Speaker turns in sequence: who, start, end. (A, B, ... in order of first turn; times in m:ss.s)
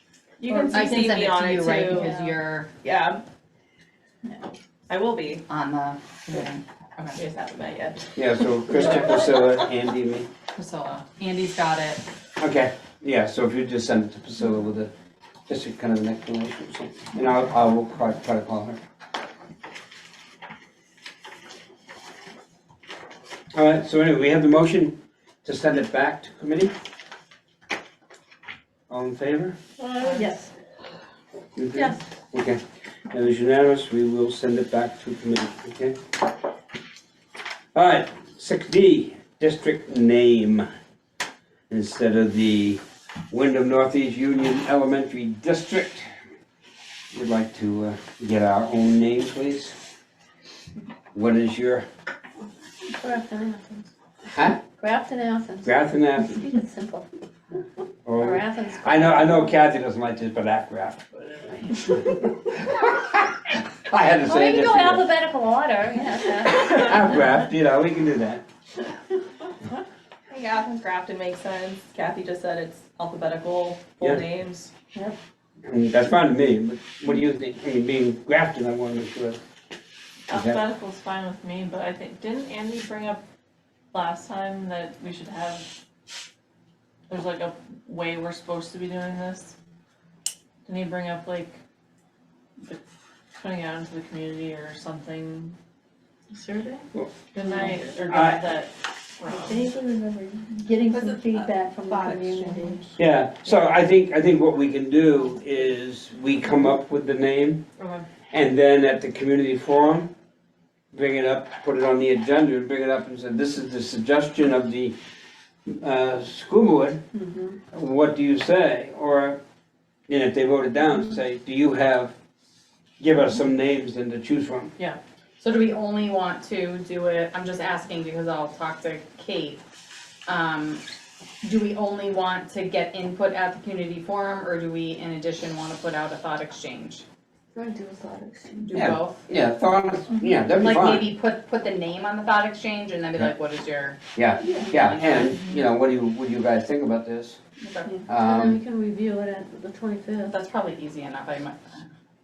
0:00.4-0:02.1 A
0:00.4-0:02.3 B
0:00.7-0:02.7 C
0:02.8-0:03.2 A
0:04.9-0:05.4 A
0:05.5-0:07.2 C
0:07.2-0:08.2 A
0:08.2-0:10.3 D
0:10.6-0:12.0 C
0:12.4-0:14.9 D
0:15.5-0:18.8 D
0:23.5-0:26.7 D
0:28.9-0:29.6 D
0:29.9-0:30.3 E
0:29.9-0:30.5 B
0:31.6-0:32.6 D
0:33.1-0:36.0 D
0:37.8-0:40.7 D
0:41.7-0:46.1 D
0:47.1-0:49.7 D
0:51.1-0:51.8 D
0:52.9-0:53.9 B
0:54.3-0:54.6 D
0:54.8-0:55.7 B
0:55.6-0:56.4 D
0:56.2-0:57.1 B
0:58.1-1:05.1 D
0:58.2-0:59.3 B
1:04.2-1:07.0 B
1:06.4-1:08.4 D
1:10.3-1:14.8 A
1:15.6-1:19.4 D
1:20.3-1:23.2 E
1:20.3-1:20.6 D
1:23.9-1:25.7 E
1:27.1-1:29.5 E
1:30.7-1:31.6 E
1:33.4-1:35.6 E
1:36.3-1:36.8 B
1:37.3-1:39.6 E
1:38.1-1:38.4 D
1:39.3-1:42.9 B
1:41.1-1:42.7 A
1:43.0-1:47.6 D
1:47.8-1:48.0 E
1:48.3-1:50.1 D
1:50.9-1:55.0 D
1:55.7-1:57.0 D
1:57.2-1:57.6 B
1:57.7-1:59.4 D
2:00.1-2:02.1 D
2:03.0-2:04.7 D
2:05.4-2:09.6 C
2:10.3-2:10.8 C
2:11.4-2:17.0 C
2:17.6-2:18.7 B
2:18.6-2:19.3 C
2:18.7-2:21.1 D
2:20.6-2:25.4 C
2:24.2-2:27.4 D
2:27.6-2:28.0 C
2:27.9-2:30.3 B
2:28.1-2:28.6 D
2:30.3-2:31.9 C